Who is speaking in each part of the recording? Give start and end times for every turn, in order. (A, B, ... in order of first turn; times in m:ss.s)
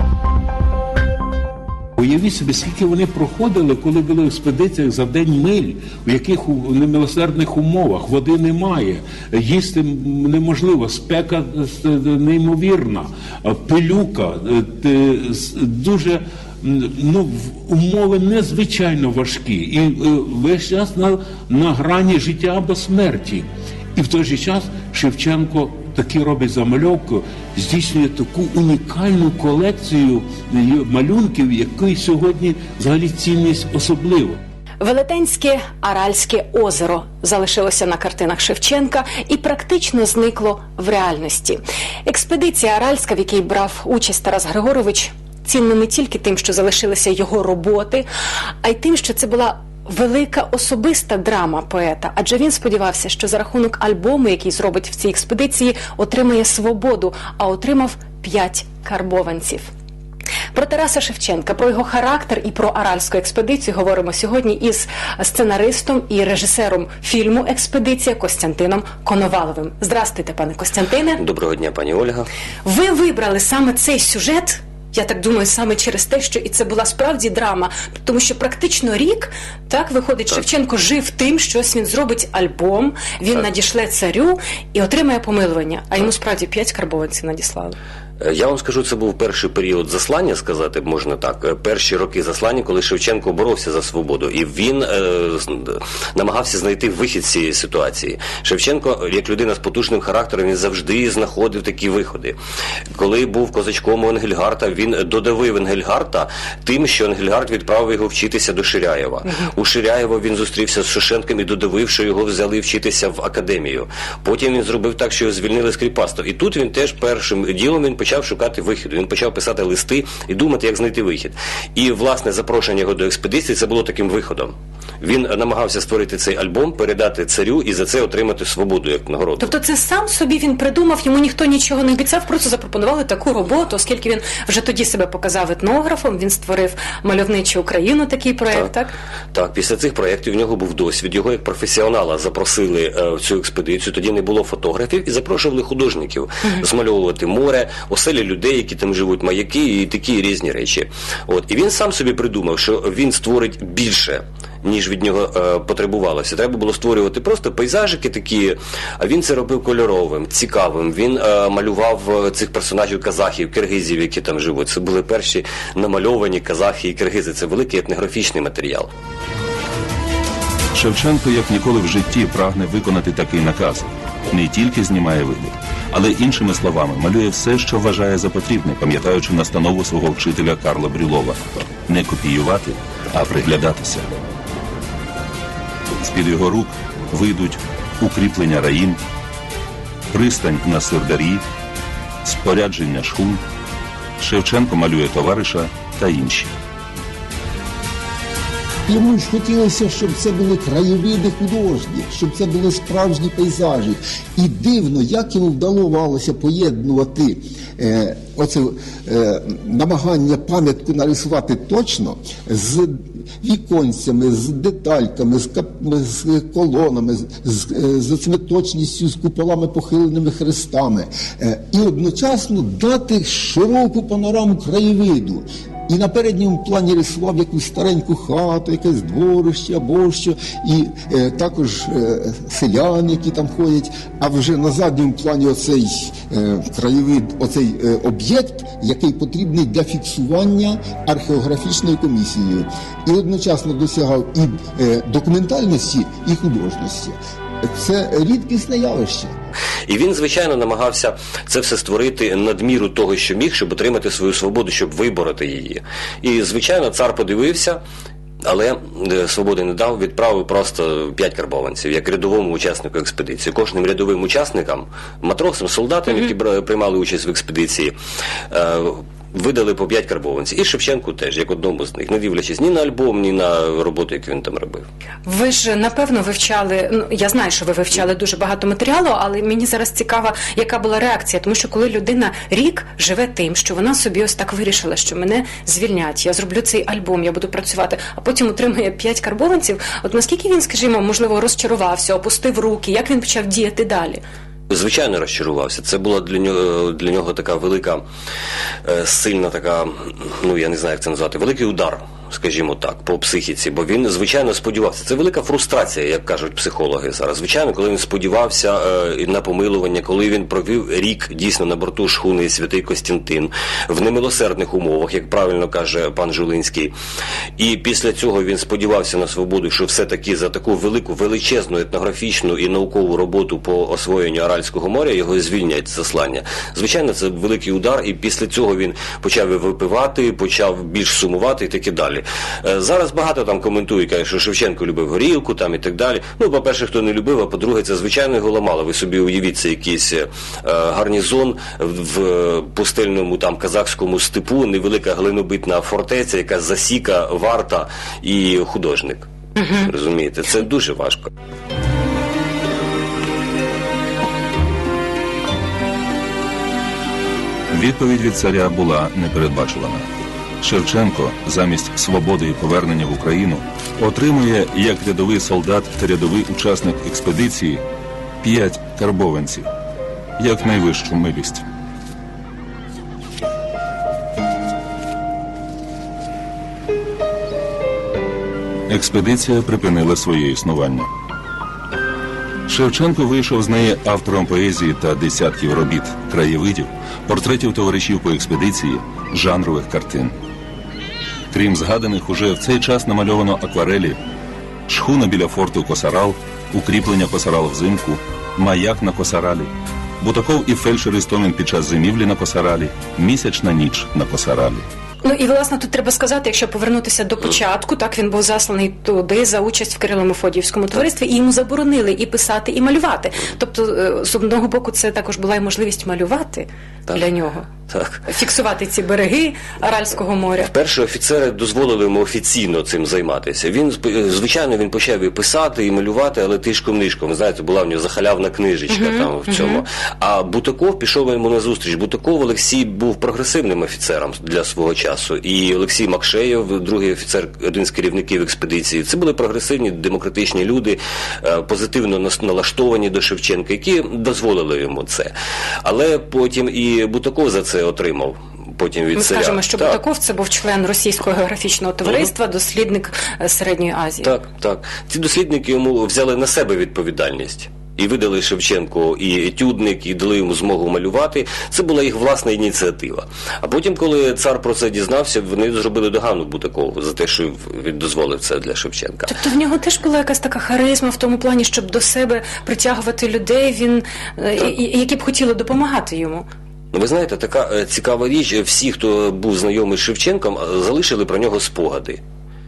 0:02.0-0:34.4 A
0:34.8-0:48.1 B
0:48.6-0:59.7 B
1:00.5-1:11.2 B
1:11.2-1:12.3 C
1:12.6-1:27.8 B
1:28.2-1:42.4 C
1:42.9-2:09.5 C
2:09.4-2:18.9 B
2:19.3-2:48.9 C
2:50.7-3:04.1 D
3:06.0-3:09.0 D
3:10.1-3:11.4 D
3:12.2-3:13.4 D
3:14.2-3:16.5 D
3:18.9-4:09.4 E
4:09.9-4:17.8 C
4:18.4-4:27.9 C
4:28.5-4:34.9 C
4:35.2-4:54.2 B
4:54.7-4:58.0 C
4:58.8-5:16.9 C
5:17.6-5:51.3 C
5:49.6-5:49.9 B
5:57.7-6:00.1 D
6:00.6-6:07.8 D
6:08.4-6:09.7 D
6:10.4-6:11.6 D
6:18.9-6:21.1 D
6:22.7-6:30.3 D
6:31.5-6:34.2 D
6:34.9-6:44.9 D
6:45.2-6:57.7 B
6:57.9-6:58.2 C
6:58.3-7:00.7 B
7:00.7-7:25.3 C
7:08.9-7:09.8 B
7:25.8-7:30.0 C
7:29.2-7:34.3 B
7:34.2-7:49.3 C
7:49.3-7:56.5 B
7:56.9-8:02.2 C